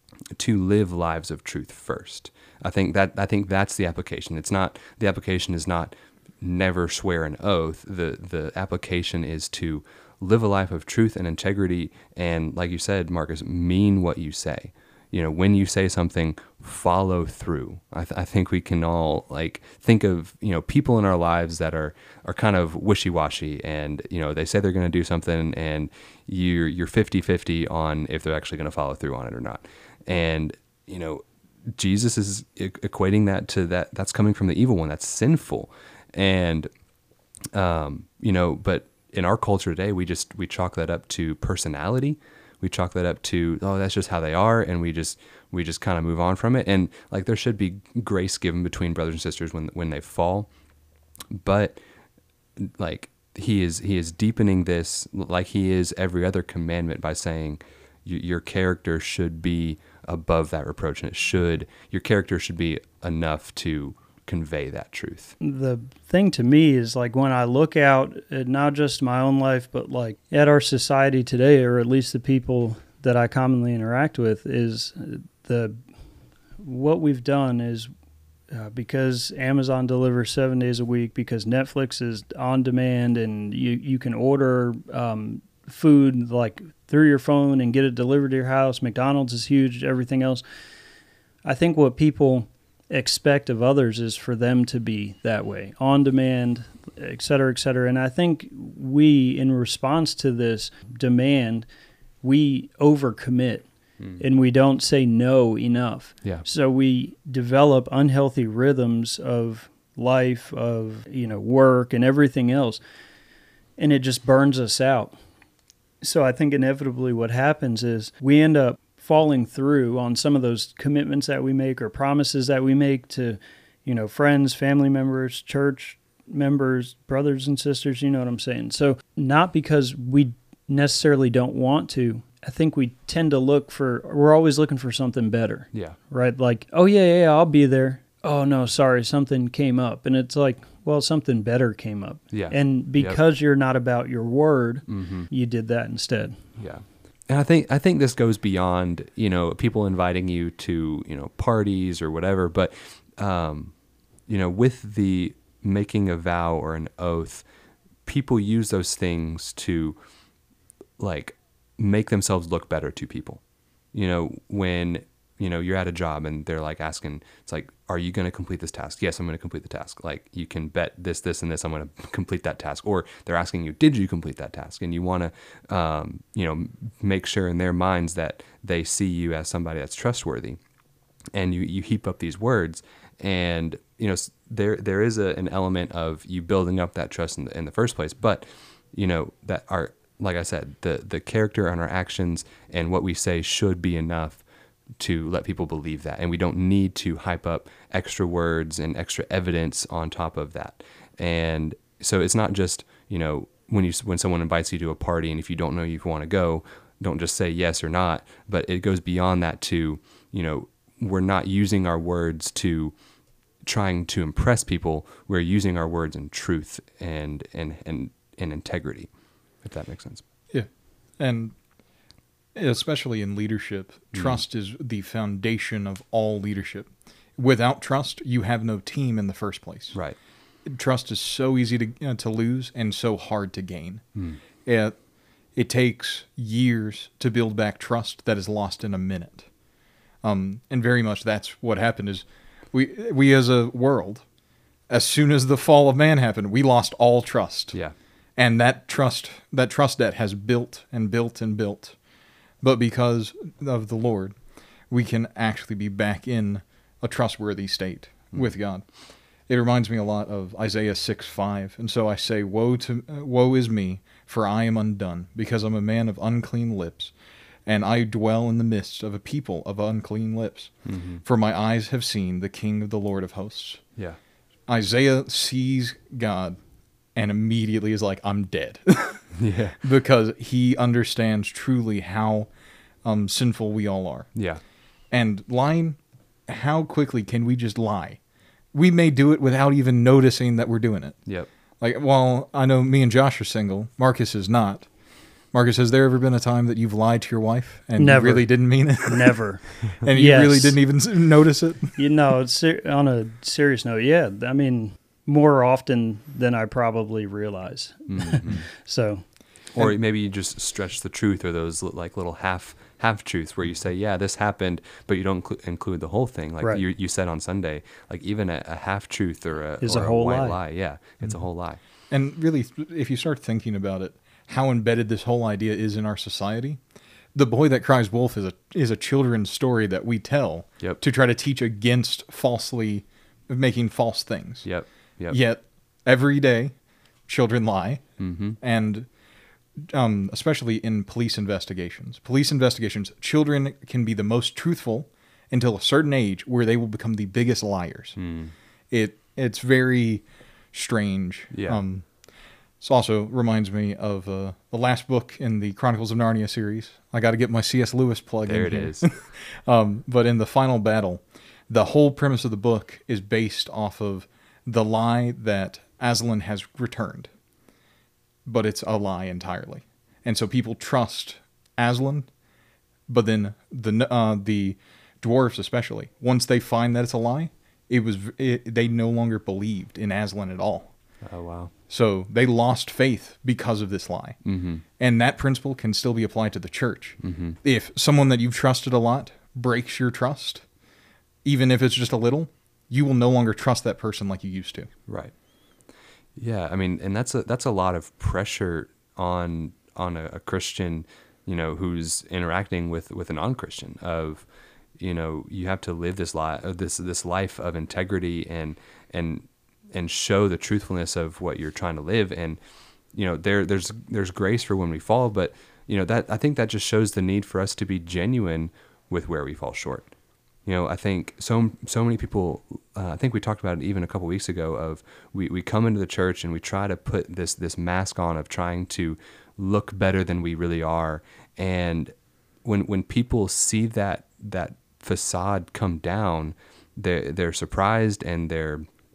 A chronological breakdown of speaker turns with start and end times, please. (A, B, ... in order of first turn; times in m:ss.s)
0:00.4-0:31.2 A
0:31.7-0:36.7 A
0:37.5-0:50.5 A
0:51.3-0:51.8 A
0:52.6-1:05.3 A
1:05.4-1:15.8 B
1:16.6-1:17.9 B
1:18.5-1:30.4 B
1:31.4-1:41.6 B
1:42.2-1:43.7 B
1:44.2-1:52.8 B
1:53.8-1:55.2 B
1:56.0-2:26.4 B
2:22.3-2:23.2 A
2:24.9-2:25.3 A
2:26.6-2:33.7 A
2:34.3-2:37.4 A
2:38.0-2:40.0 A
2:41.0-2:43.4 A
2:43.9-3:00.6 A
3:01.3-3:14.4 A
3:15.0-3:32.9 A
3:33.6-3:39.1 A
3:39.6-3:40.2 A
3:40.5-3:41.5 C
3:42.5-3:50.0 C
3:44.1-3:44.4 A
3:50.6-3:54.0 C
3:54.6-3:55.0 C
3:55.5-3:59.5 C
4:00.2-4:04.2 C
4:04.9-4:07.8 C
4:08.4-4:12.0 C
4:12.6-4:14.4 C
4:14.9-4:18.9 C
4:19.5-4:27.1 C
4:27.6-4:33.8 C
4:30.8-4:31.2 A
4:34.7-4:36.6 C
4:37.1-4:42.5 C
4:39.4-4:39.8 A
4:43.0-4:44.3 C
4:44.3-4:44.6 A
4:45.1-4:48.2 C
4:48.7-4:51.3 C
4:51.8-4:54.9 C
4:55.5-5:02.0 C
4:58.0-5:00.8 B
5:02.0-5:09.3 B
5:08.1-5:08.6 A
5:09.7-5:21.8 A
5:19.8-5:20.6 B
5:22.1-5:26.8 C
5:27.3-5:34.7 C
5:34.6-5:35.4 A
5:35.3-5:39.1 C
5:38.2-5:38.6 A
5:39.8-5:48.2 C
5:48.2-5:48.5 A
5:48.9-5:52.1 C
5:51.5-5:51.8 A
5:52.8-6:07.3 C
5:58.4-5:59.1 A
6:08.4-6:12.3 C
6:13.1-6:21.0 C
6:21.2-6:21.7 A
6:21.9-6:24.4 C
6:24.4-6:24.8 A
6:25.0-6:30.6 C
6:27.2-6:27.6 A
6:31.4-6:34.9 C
6:35.1-6:35.3 A
6:36.4-6:44.4 A
6:45.0-6:52.6 A
6:53.1-7:00.1 A
7:00.6-7:12.1 A
7:12.6-7:18.8 A